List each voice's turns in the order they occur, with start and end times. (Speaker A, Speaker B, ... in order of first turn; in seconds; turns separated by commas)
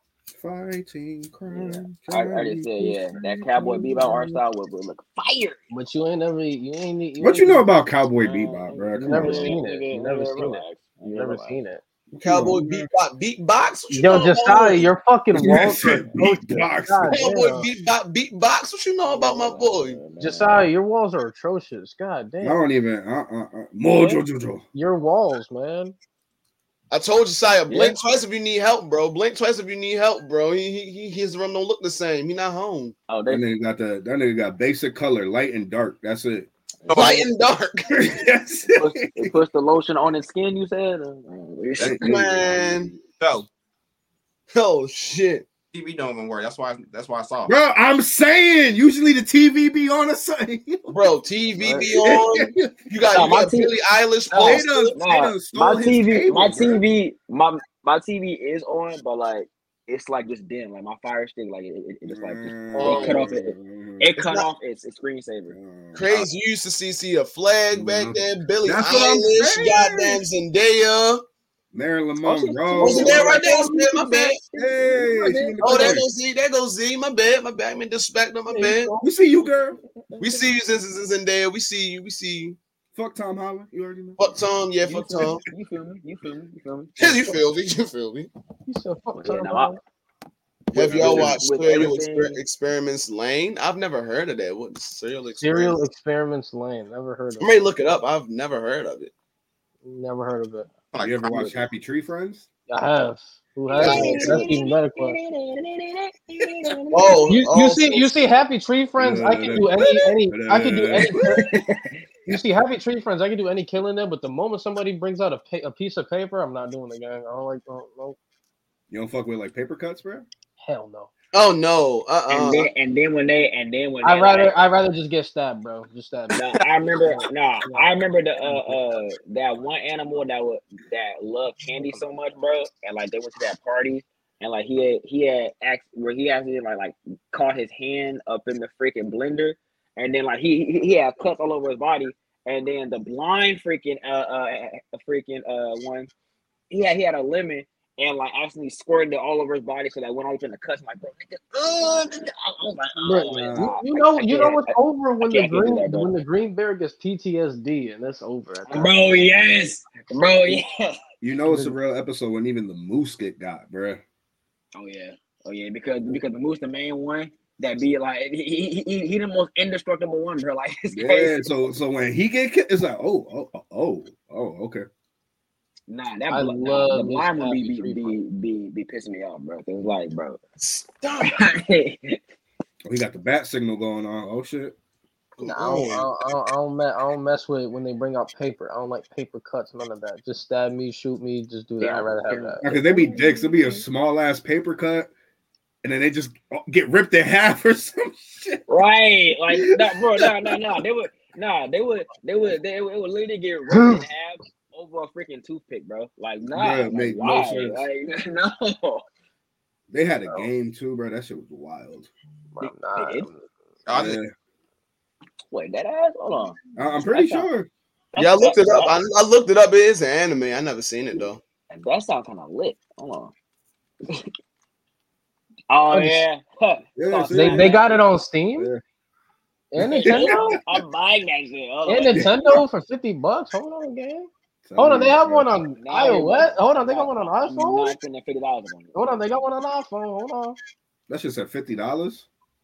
Speaker A: 0.3-4.4, Speaker B: 1.5-5.6, Speaker C: 5.7-7.7, Speaker A: 7.2-9.6, Speaker B: 8.1-11.6, Speaker C: 9.0-11.8, Speaker A: 12.1-12.9, Speaker D: 12.2-14.9, Speaker C: 13.9-17.7, Speaker A: 15.3-17.2, Speaker D: 17.1-20.0, Speaker B: 19.1-20.6, Speaker C: 20.2-22.6, Speaker A: 22.4-24.6, Speaker C: 24.7-25.9, Speaker D: 26.9-33.0, Speaker B: 27.7-28.0, Speaker B: 33.1-33.4, Speaker A: 33.3-36.5, Speaker E: 36.9-37.2, Speaker D: 36.9-38.2, Speaker A: 37.9-39.3, Speaker B: 38.7-42.3, Speaker A: 41.8-43.0, Speaker D: 41.9-42.9, Speaker E: 43.0-43.5, Speaker D: 44.5-45.5, Speaker E: 45.7-47.5, Speaker A: 47.5-51.0, Speaker D: 50.9-55.0, Speaker A: 51.7-52.9, Speaker B: 53.1-53.7, Speaker B: 54.3-65.5, Speaker A: 54.4-56.8, Speaker A: 62.0-64.1, Speaker D: 62.8-63.3, Speaker D: 64.2-64.5, Speaker A: 65.5-66.2, Speaker D: 65.9-71.2, Speaker A: 67.7-70.2, Speaker A: 71.7-73.4, Speaker B: 72.2-76.0, Speaker D: 72.8-74.4, Speaker A: 74.5-76.0, Speaker D: 75.6-78.9, Speaker C: 78.5-79.0, Speaker A: 79.0-79.8, Speaker B: 79.4-80.5, Speaker D: 80.2-82.6, Speaker A: 82.9-84.4, Speaker D: 84.2-85.4, Speaker B: 84.8-87.3, Speaker D: 87.0-88.3, Speaker C: 88.7-89.8, Speaker B: 89.2-89.8, Speaker D: 90.7-95.8, Speaker B: 90.7-92.4, Speaker E: 90.9-91.2, Speaker A: 90.9-91.3, Speaker C: 95.4-97.7, Speaker D: 97.4-99.1, Speaker C: 99.8-100.7, Speaker E: 100.9-101.7, Speaker A: 101.0-102.5, Speaker C: 102.7-105.2, Speaker B: 103.7-107.3, Speaker D: 103.8-104.6, Speaker D: 106.9-108.1, Speaker C: 107.3-111.5, Speaker A: 109.0-111.2, Speaker B: 111.2-111.9, Speaker C: 112.3-118.2, Speaker A: 118.9-120.3, Speaker C: 120.6-121.1, Speaker D: 121.3-122.7, Speaker B: 122.3-124.6, Speaker C: 124.0-126.4, Speaker B: 126.3-146.1, Speaker C: 126.9-127.9, Speaker C: 128.4-128.8, Speaker B: 146.7-156.1, Speaker C: 153.0-159.5, Speaker A: 153.3-153.7, Speaker B: 158.7-161.0, Speaker A: 161.2-164.0, Speaker C: 161.5-161.8, Speaker B: 164.7-171.5, Speaker A: 170.9-174.8, Speaker B: 175.9-180.4, Speaker C: 176.3-178.2, Speaker D: 180.6-181.4, Speaker B: 181.2-182.2, Speaker A: 182.9-184.8, Speaker D: 185.4-186.1, Speaker C: 185.4-192.6, Speaker B: 191.8-193.8, Speaker A: 192.6-195.1, Speaker A: 195.8-198.6, Speaker B: 198.7-209.0, Speaker A: 199.5-200.7, Speaker C: 203.7-204.0, Speaker A: 206.5-207.8, Speaker A: 209.9-212.1, Speaker C: 212.5-213.5, Speaker B: 212.6-213.3, Speaker E: 213.9-214.2, Speaker A: 213.9-214.3, Speaker B: 215.5-217.5, Speaker A: 216.8-217.7, Speaker B: 218.1-219.0, Speaker D: 218.2-221.4, Speaker B: 221.7-223.3, Speaker B: 225.7-228.0, Speaker C: 225.9-226.2, Speaker A: 226.9-227.8, Speaker C: 227.3-228.7, Speaker A: 228.6-228.8, Speaker C: 229.7-230.6, Speaker A: 229.8-230.7, Speaker B: 229.9-232.6, Speaker C: 231.8-238.0, Speaker A: 232.1-232.6, Speaker A: 234.6-235.6, Speaker B: 235.8-239.2, Speaker C: 238.9-240.6, Speaker A: 241.1-242.2